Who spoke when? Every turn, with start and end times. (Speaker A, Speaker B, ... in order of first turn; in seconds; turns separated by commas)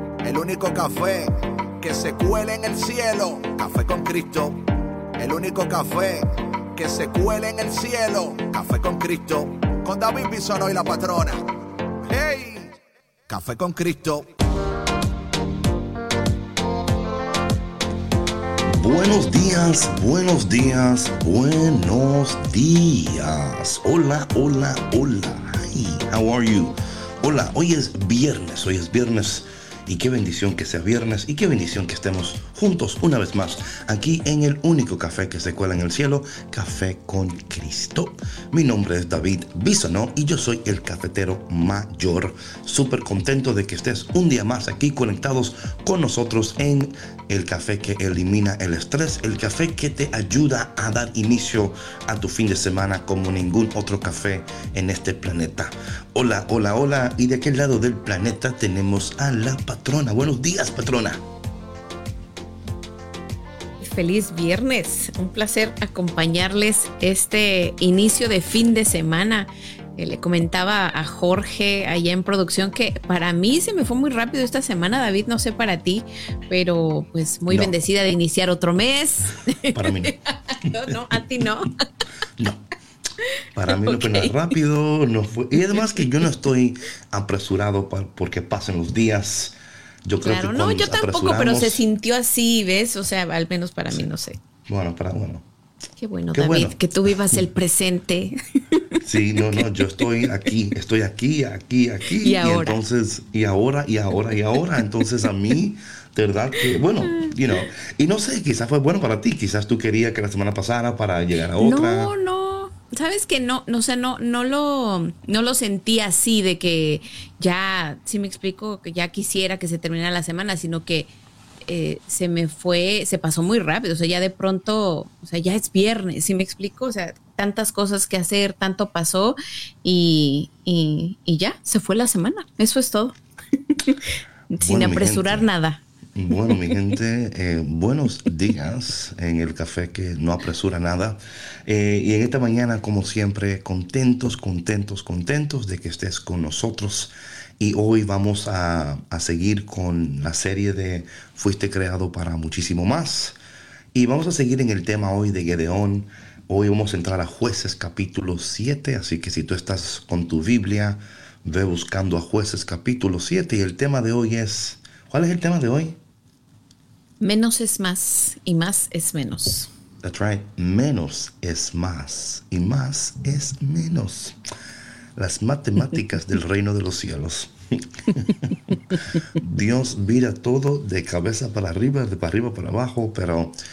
Speaker A: 0.2-4.6, Speaker A: 5.2-11.4, Speaker A: 12.0-12.8, Speaker A: 13.3-14.3, Speaker B: 18.6-61.2, Speaker C: 63.8-81.8, Speaker B: 79.7-80.1, Speaker B: 83.5-91.8, Speaker C: 83.8-84.3, Speaker C: 90.2-94.4, Speaker B: 94.7-95.4, Speaker C: 96.0-99.7, Speaker B: 96.3-96.7, Speaker B: 99.0-112.1, Speaker C: 102.2-102.8, Speaker C: 111.6-121.1, Speaker C: 121.7-133.2, Speaker C: 133.7-135.8, Speaker B: 134.6-135.5, Speaker B: 136.1-153.3, Speaker B: 153.9-166.0, Speaker C: 167.2-169.7, Speaker B: 170.0-174.4, Speaker B: 175.2-183.6